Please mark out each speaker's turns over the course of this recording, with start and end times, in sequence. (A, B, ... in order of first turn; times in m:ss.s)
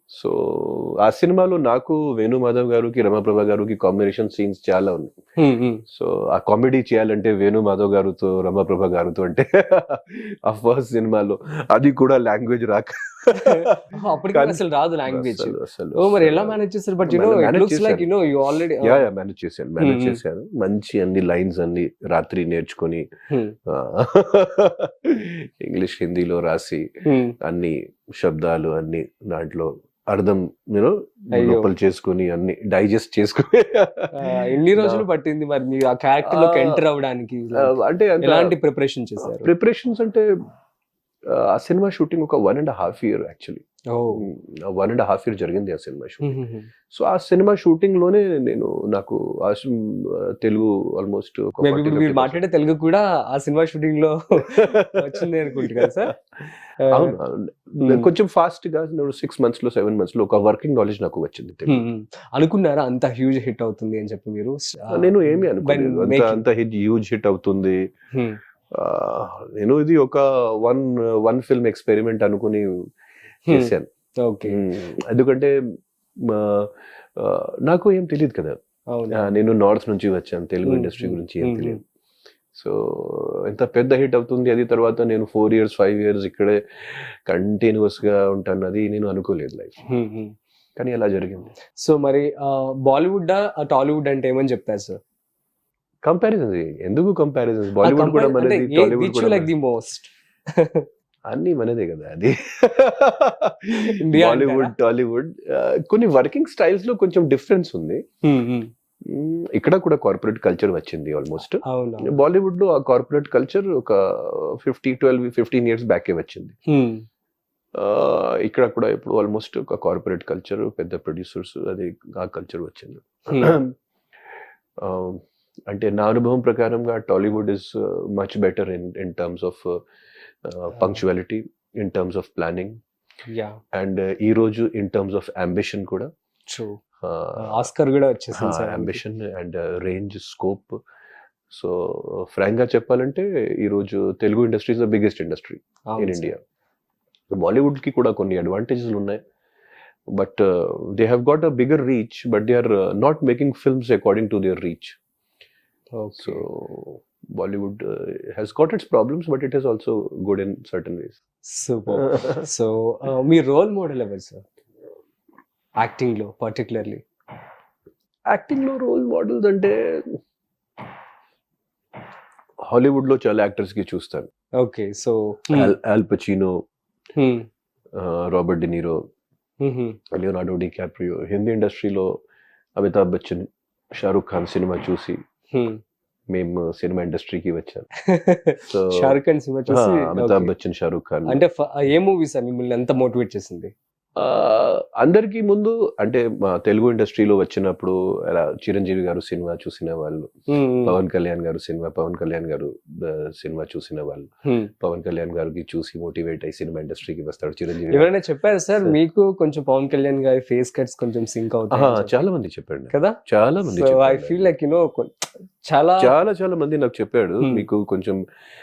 0:00.1-0:05.1 A
0:05.4-0:05.8 B
0:05.9-0:13.8 A
0:13.4-0:19.1 B
0:14.3-0:18.1 A
0:18.8-0:23.1 A
0:19.8-0:20.2 B
0:23.3-0:23.6 B
0:23.7-0:26.9 A
0:27.1-0:27.4 B
0:27.4-0:35.0 A
0:31.3-0:31.7 B
0:34.1-0:39.5 B
0:36.2-0:36.8 A
0:37.6-0:38.6 A
0:39.2-0:40.3 A
0:41.3-0:46.3 A
0:43.9-0:44.3 B
0:46.2-0:46.7 B
0:46.9-0:52.4 A
0:51.6-0:56.1 B
0:54.6-0:55.9 A
0:56.8-0:57.2 B
0:56.9-1:01.8 A
0:57.8-0:58.1 B
1:01.7-1:06.4 B
1:04.9-1:07.8 A
1:08.1-1:08.4 B
1:08.7-1:12.7 A
1:13.5-1:13.9 A
1:13.5-1:14.6 B
1:14.5-1:15.6 A
1:16.3-1:18.6 A
1:18.9-1:19.3 B
1:19.1-1:21.8 A
1:20.6-1:21.8 B
1:22.6-1:29.8 A
1:29.9-1:30.4 B
1:30.8-1:31.5 A
1:31.8-1:35.0 B
1:36.0-1:39.5 A
1:37.8-1:40.9 B
1:41.3-1:48.0 A
1:43.8-1:44.7 B
1:48.2-1:48.7 B
1:49.1-1:56.6 A
1:51.6-1:52.1 B
1:56.7-1:57.0 B
1:57.8-2:03.8 A
2:03.3-2:03.6 B
2:04.8-2:09.8 A
2:10.4-2:12.8 A
2:13.3-2:13.6 B
2:13.7-2:16.1 A
2:16.5-2:16.8 B
2:17.0-2:17.7 A
2:17.4-2:19.0 B
2:18.4-2:20.8 A
2:21.5-2:26.4 A
2:25.9-2:26.3 B
2:27.3-2:29.2 A
2:30.1-2:35.0 A
2:35.9-2:36.4 B
2:36.2-2:41.2 A
2:41.5-2:44.4 B
2:42.1-2:42.4 A
2:45.8-2:47.0 B
2:48.3-2:50.2 A
2:52.7-2:54.3 A
2:54.6-2:55.7 B
2:55.5-2:56.6 A
2:57.2-2:57.5 B
2:58.0-2:59.0 A
2:59.6-3:00.0 B
3:00.1-3:02.2 A
3:02.8-3:05.2 A
3:05.5-3:05.8 B
3:06.3-3:07.9 A
3:08.1-3:10.5 B
3:08.7-3:09.2 A
3:09.7-3:11.4 A
3:11.3-3:13.7 B
3:14.2-3:20.3 A
3:20.5-3:21.0 B
3:20.8-3:24.3 A
3:24.5-3:24.7 B
3:24.8-3:28.1 A
3:27.9-3:32.1 B
3:31.7-3:34.5 A
3:32.9-3:36.2 B
3:36.0-3:38.2 A